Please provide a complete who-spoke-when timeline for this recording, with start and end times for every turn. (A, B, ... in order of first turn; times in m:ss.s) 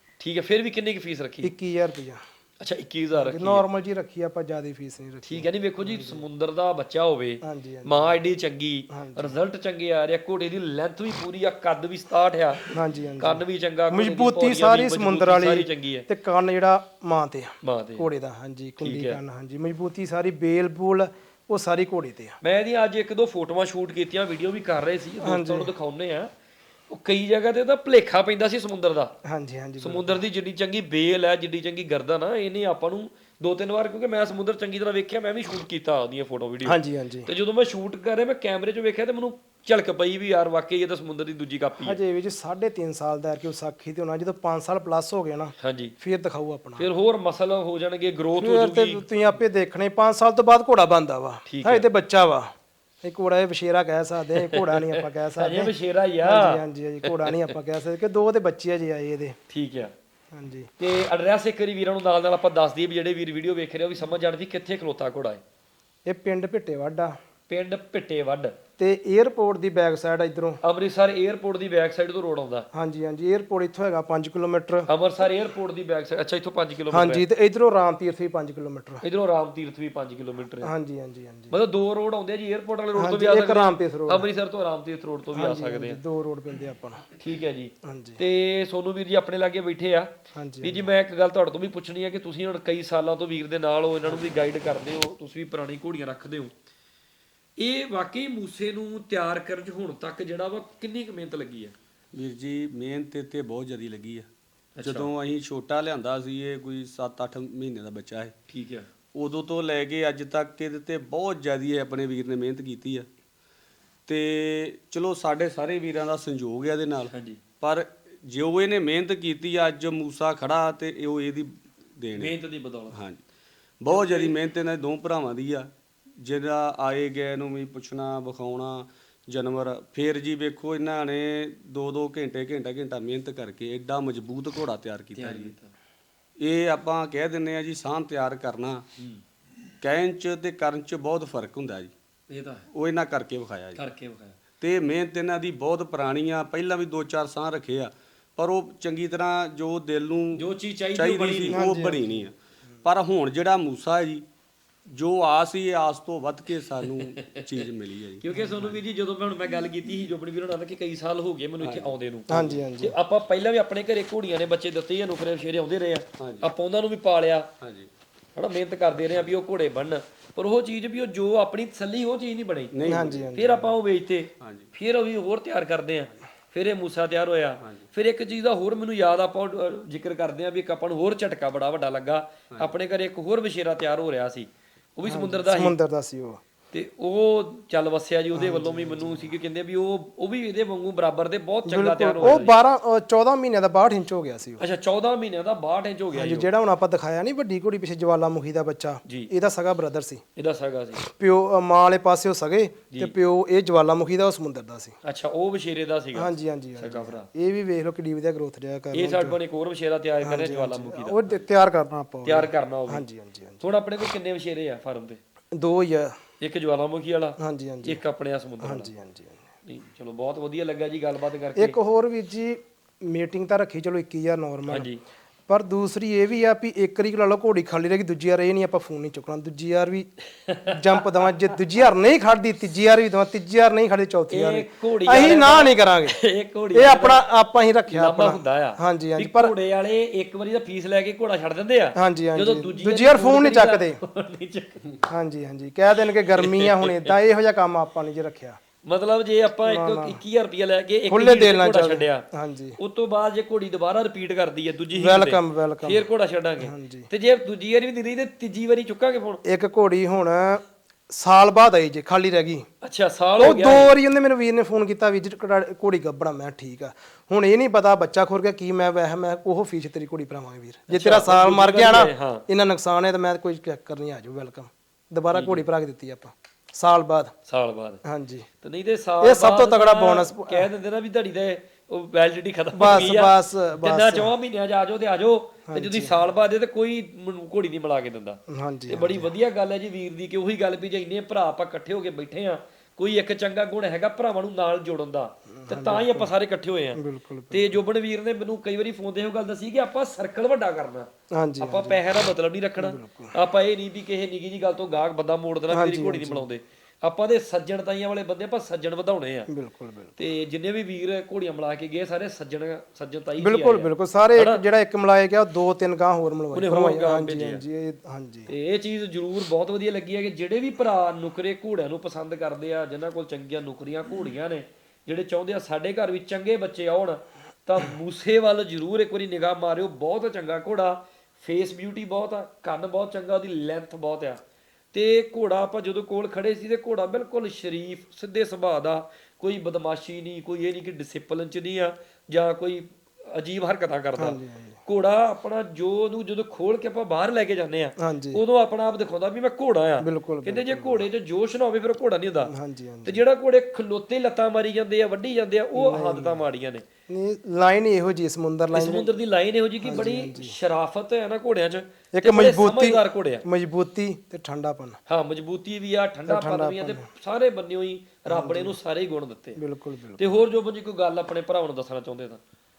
0:00.2-0:01.5 A
0:01.4-0:02.2 B
0:02.6-0:03.6 A
0:03.1-0:06.2 B
0:05.2-0:16.1 A
0:07.4-0:08.2 B
0:08.9-0:09.4 B
0:12.7-0:22.4 B
0:17.6-0:18.0 A
0:18.8-0:19.2 A
0:22.4-0:26.3 A
0:25.2-0:25.7 B
0:26.9-0:29.1 A
0:29.2-0:30.2 B
0:29.8-0:42.0 A
0:36.6-0:37.3 B
0:41.8-0:46.9 B
0:45.6-0:45.9 A
0:46.8-0:49.0 A
0:48.4-0:52.5 B
0:51.5-0:51.8 A
0:53.0-0:55.7 B
0:54.4-0:57.5 A
0:56.2-0:59.4 B
0:59.5-0:59.9 A
1:00.3-1:00.7 B
1:00.8-1:05.4 A
1:06.0-1:07.2 B
1:07.5-1:08.5 A
1:08.8-1:10.6 B
1:10.6-1:12.7 A
1:12.7-1:14.9 B
1:14.9-1:17.2 A
1:16.9-1:19.0 B
1:19.0-1:20.7 A
1:20.6-1:21.6 B
1:21.5-1:26.0 A
1:22.9-1:24.3 B
1:25.3-1:27.0 B
1:27.2-1:30.1 A
1:27.8-1:28.2 B
1:30.3-1:30.9 B
1:30.6-1:36.5 A
1:37.6-1:41.7 A
1:42.1-1:44.3 C
1:44.8-1:45.1 A
1:44.8-1:48.3 C
1:48.5-1:48.9 A
1:49.1-1:53.1 C
1:54.1-2:02.3 C
1:57.1-1:57.4 A
2:02.1-2:03.0 A
2:02.9-2:03.2 C
2:03.8-2:15.5 C
2:03.9-2:04.3 A
2:15.1-2:15.7 A
2:16.4-2:18.8 C
2:19.8-2:21.9 C
2:22.3-2:22.6 A
2:22.7-2:23.8 C
2:23.7-2:24.4 A
2:24.6-2:30.4 C
2:30.3-2:31.6 A
2:30.9-2:34.2 C
2:31.5-2:32.0 B
2:34.9-2:38.2 C
2:37.0-2:37.6 A
2:38.2-2:47.5 A
2:41.6-2:41.9 C
2:42.3-2:43.0 B
2:46.2-2:46.5 C
2:47.6-2:47.9 C
2:48.4-3:05.8 A
2:52.7-2:53.3 C
2:52.8-2:53.7 B
2:54.4-2:54.7 C
3:05.0-3:06.4 B
3:06.7-3:12.6 A
3:08.3-3:09.3 B
3:11.6-3:14.6 B
3:14.6-3:16.5 A
3:16.1-3:20.2 B
3:20.4-3:21.0 A
3:21.0-3:24.9 B
3:25.0-3:27.2 A
3:26.1-3:29.4 B
3:28.9-3:31.4 A
3:30.2-3:33.6 B
3:32.2-3:33.0 A
3:33.6-3:35.2 A
3:35.5-3:36.1 B
3:36.4-3:38.9 A
3:37.4-3:38.0 B
3:38.6-3:39.5 B
3:39.6-3:41.8 A
3:41.5-3:44.9 B
3:44.7-3:45.0 A
3:45.5-3:50.1 B
3:50.5-3:51.0 A
3:50.7-3:56.2 B
3:54.3-3:57.2 A
3:56.7-3:59.5 B
3:57.9-4:04.9 A
4:02.0-4:04.0 B
4:05.1-4:08.6 B
4:06.3-4:07.1 A
4:08.8-4:12.2 A
4:09.6-4:10.2 B
4:11.1-4:12.8 B
4:12.8-4:19.4 A
4:14.9-4:16.0 B
4:16.6-4:17.1 B
4:19.4-4:22.6 B
4:22.8-4:23.9 A
4:23.4-4:37.3 B
4:30.9-4:32.4 A
4:35.3-4:35.6 A
4:37.5-4:38.0 A
4:38.0-4:38.5 B
4:38.6-4:57.0 A
4:39.2-4:40.7 B
4:42.7-4:44.3 B
4:45.7-4:46.2 B
4:48.5-4:49.3 B
4:55.5-4:56.3 B
4:56.9-4:57.8 B
4:57.5-5:01.1 A
5:01.3-5:02.0 B
5:01.6-5:09.5 A
5:02.8-5:03.3 B
5:05.7-5:06.5 B
5:09.5-5:10.2 B
5:10.2-5:14.6 A
5:13.4-5:18.5 B
5:16.5-5:17.6 A
5:18.5-5:34.4 A
5:34.9-5:52.5 A
5:44.2-5:44.8 B
5:48.0-5:48.4 B
5:50.0-5:51.1 B
5:52.4-5:53.2 B
5:53.0-5:56.8 A
5:55.7-5:56.4 B
5:57.1-5:59.1 B
5:58.7-6:03.4 A
5:59.8-6:00.6 B
6:02.1-6:05.0 B
6:05.1-6:09.6 A
6:06.3-6:07.1 B
6:08.3-6:08.8 B
6:09.6-6:10.4 B
6:10.2-6:12.4 A